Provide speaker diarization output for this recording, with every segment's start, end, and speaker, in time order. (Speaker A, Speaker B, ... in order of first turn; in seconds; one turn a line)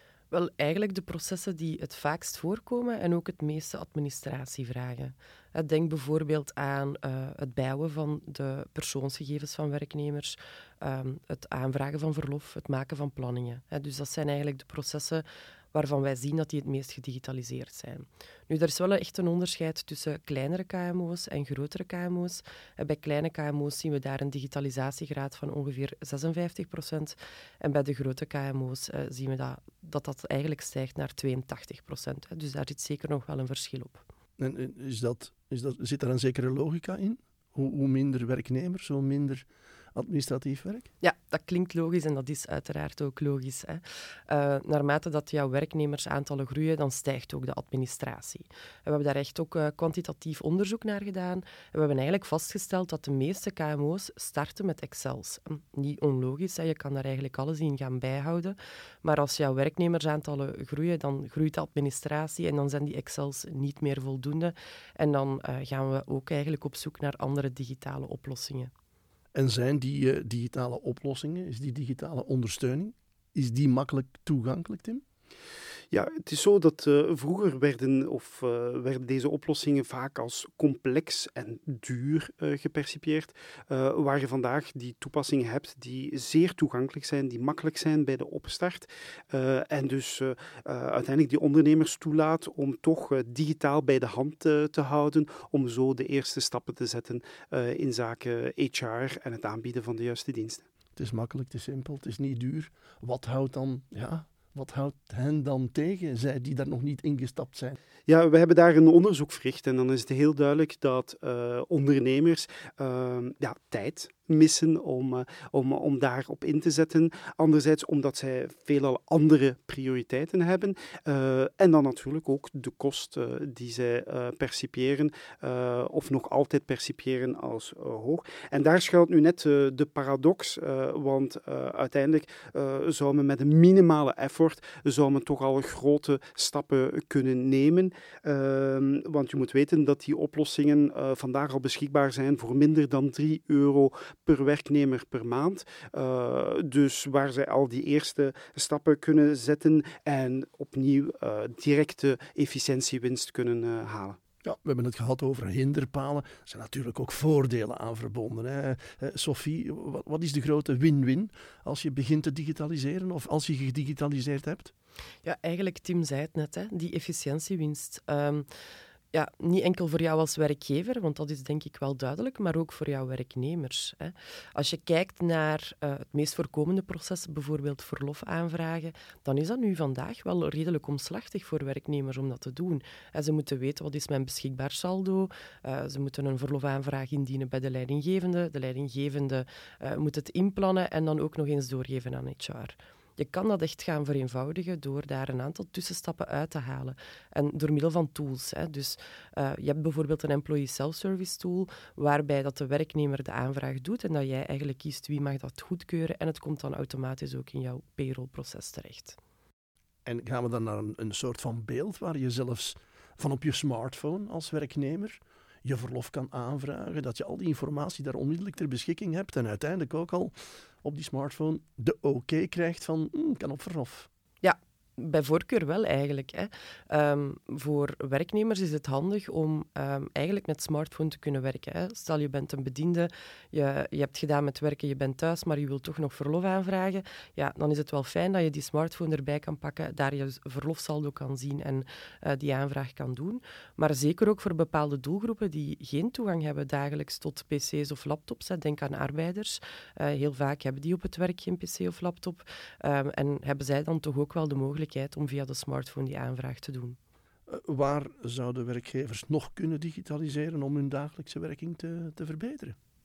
Speaker A: 0.3-34.0
Speaker B: 34.4-40.9
Speaker A: 41.0-68.7
Speaker B: 69.3-75.0
Speaker C: 75.9-100.7
Speaker B: 101.0-107.8
Speaker C: 108.1-154.2
Speaker B: 154.4-164.7
Speaker A: 165.2-168.5
Speaker A: 169.1-209.2
Speaker B: 210.1-224.1
Speaker A: 224.4-257.0
Speaker B: 257.5-262.8